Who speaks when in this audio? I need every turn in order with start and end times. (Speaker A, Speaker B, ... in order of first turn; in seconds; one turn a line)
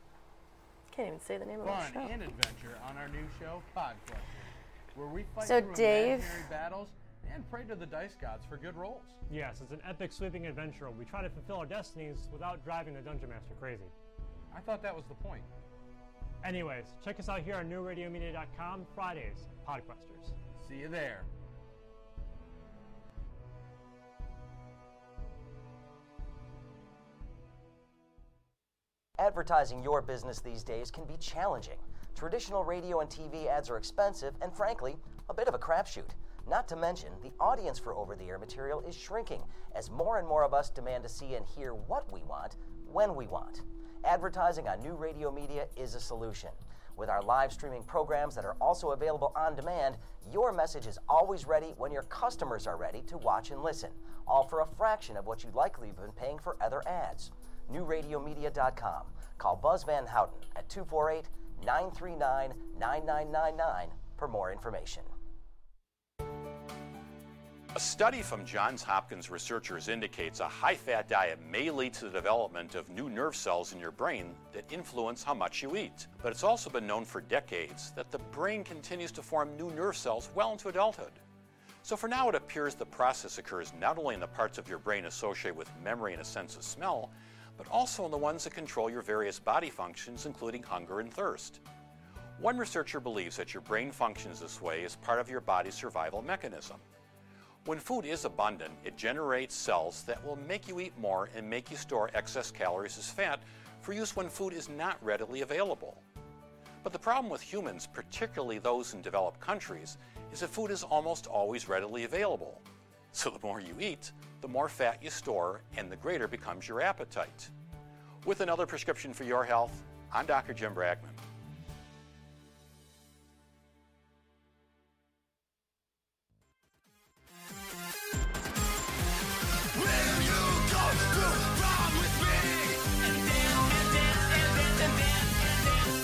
Speaker A: 0.9-2.1
Speaker B: 1.6-9.2
Speaker A: 5.4-6.5
Speaker C: 9.3-13.9
Speaker B: 14.5-15.5
Speaker C: 16.4-20.3
Speaker B: 20.6-21.3
Speaker D: 29.2-65.1
Speaker E: 67.7-81.2
Speaker E: 81.8-91.6
Speaker E: 92.4-96.8
Speaker E: 97.6-106.0
Speaker E: 106.8-117.5
Speaker E: 118.2-121.2